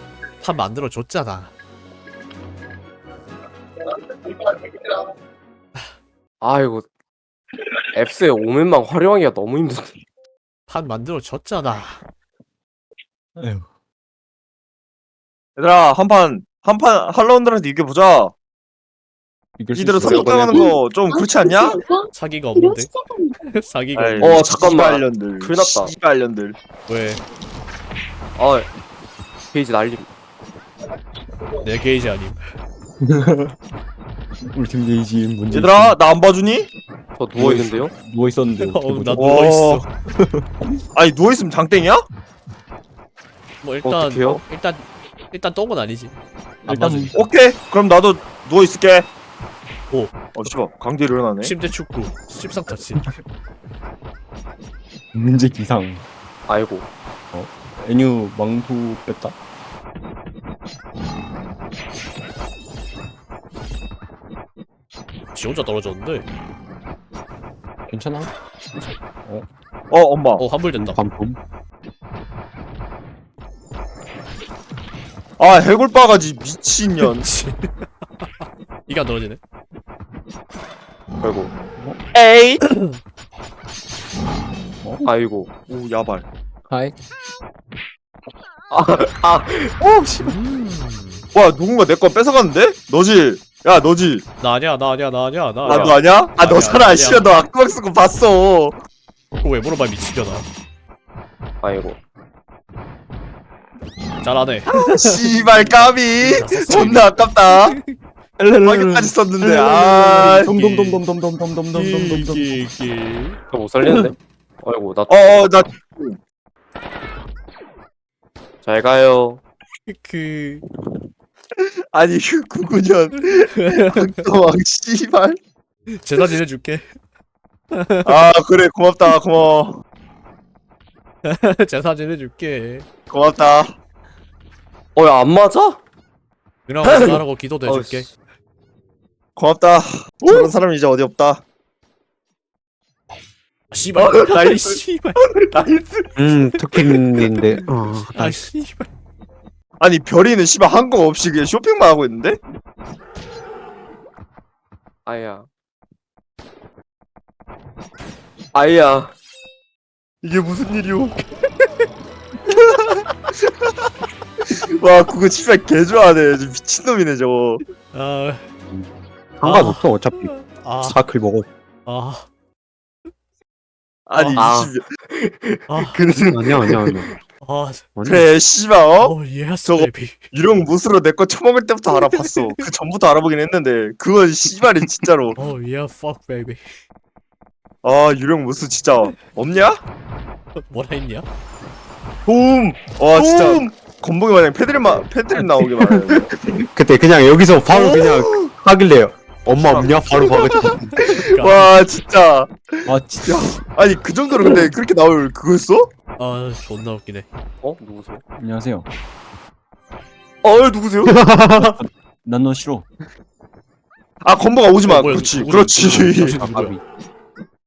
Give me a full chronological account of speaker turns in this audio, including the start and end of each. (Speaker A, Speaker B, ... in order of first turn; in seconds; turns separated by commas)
Speaker A: 0.4-1.5, Speaker B: 6.4-6.8, Speaker B: 7.9-10.0, Speaker A: 10.7-12.0, Speaker C: 13.4-13.7, Speaker D: 15.6-18.3, Speaker C: 19.6-20.8, Speaker D: 19.8-21.8, Speaker A: 22.1-24.7, Speaker D: 24.0-26.6, Speaker B: 24.3-25.9, Speaker A: 26.9-27.2, Speaker B: 28.4-28.7, Speaker B: 29.5-30.1, Speaker A: 31.6-32.4, Speaker C: 33.0-33.5, Speaker C: 34.5-36.0, Speaker D: 35.5-36.7, Speaker B: 37.1-37.9, Speaker C: 37.4-39.4, Speaker A: 38.6-39.9, Speaker D: 39.1-39.9, Speaker C: 40.2-40.6, Speaker D: 40.9-42.0, Speaker A: 43.6-46.1, Speaker B: 43.8-44.4, Speaker C: 46.7-47.1, Speaker A: 46.7-47.2, Speaker D: 47.1-49.1, Speaker D: 50.4-51.5, Speaker A: 51.4-53.1, Speaker C: 55.1-56.1, Speaker B: 56.5-56.9, Speaker C: 57.3-59.4, Speaker A: 65.3-66.3, Speaker C: 67.9-68.3, Speaker D: 69.9-70.5, Speaker A: 70.4-71.0, Speaker C: 70.8-71.4, Speaker D: 75.4-77.3, Speaker A: 77.0-77.7, Speaker A: 78.9-79.4, Speaker B: 81.2-81.5, Speaker D: 82.2-82.6, Speaker A: 82.7-83.0, Speaker C: 84.8-85.1, Speaker B: 85.0-85.5, Speaker D: 85.7-86.3, Speaker B: 88.7-89.8, Speaker A: 90.2-91.2, Speaker D: 91.3-94.2, Speaker A: 94.4-97.3, Speaker B: 95.7-96.0, Speaker D: 95.7-98.8, Speaker A: 99.4-100.5, Speaker B: 101.6-102.0, Speaker A: 104.2-104.9, Speaker D: 104.7-107.8, Speaker A: 106.2-107.9, Speaker C: 108.4-112.7, Speaker D: 108.6-110.5, Speaker A: 110.5-111.0, Speaker A: 111.7-113.4, Speaker B: 113.5-115.5, Speaker D: 115.1-116.2, Speaker B: 118.6-119.4, Speaker A: 119.9-120.7, Speaker D: 121.6-125.4, Speaker A: 123.5-124.1, Speaker A: 126.0-126.9, Speaker A: 127.7-128.2, Speaker D: 128.1-129.8, Speaker A: 131.2-132.9, Speaker D: 133.1-133.8, Speaker B: 134.9-135.8, Speaker A: 136.7-138.1, Speaker B: 136.8-138.1, Speaker D: 139.4-141.4, Speaker A: 143.7-145.3, Speaker B: 144.0-144.6, Speaker D: 145.5-146.0, Speaker E: 146.2-148.4, Speaker A: 147.5-148.9, Speaker D: 149.8-152.4, Speaker B: 155.1-155.5, Speaker B: 158.5-159.2, Speaker D: 160.2-161.2, Speaker D: 164.4-167.6, Speaker A: 167.9-168.4, Speaker E: 169.4-170.3, Speaker A: 169.4-171.0, Speaker E: 170.8-171.5, Speaker A: 171.9-172.3, Speaker D: 174.1-174.8, Speaker A: 174.1-174.6, Speaker B: 174.4-177.0, Speaker A: 175.7-176.0, Speaker E: 176.3-177.1, Speaker A: 177.4-178.3, Speaker E: 178.0-178.3, Speaker D: 178.1-179.1, Speaker A: 179.0-180.3, Speaker D: 179.7-185.4, Speaker A: 181.9-182.3, Speaker A: 185.4-186.7, Speaker D: 187.8-189.8, Speaker A: 190.6-191.3, Speaker D: 192.3-196.3, Speaker B: 193.2-193.6, Speaker B: 194.8-195.0, Speaker C: 196.8-201.0, Speaker E: 197.4-198.0, Speaker D: 197.7-198.5, Speaker E: 199.5-200.7, Speaker B: 199.6-200.1, Speaker D: 200.4-205.9, Speaker A: 201.1-201.7, Speaker C: 202.9-203.4, Speaker A: 206.2-207.3, Speaker B: 207.6-208.2, Speaker C: 208.4-208.9, Speaker B: 210.4-211.8, Speaker C: 211.1-212.9, Speaker D: 214.2-216.6, Speaker A: 214.7-216.8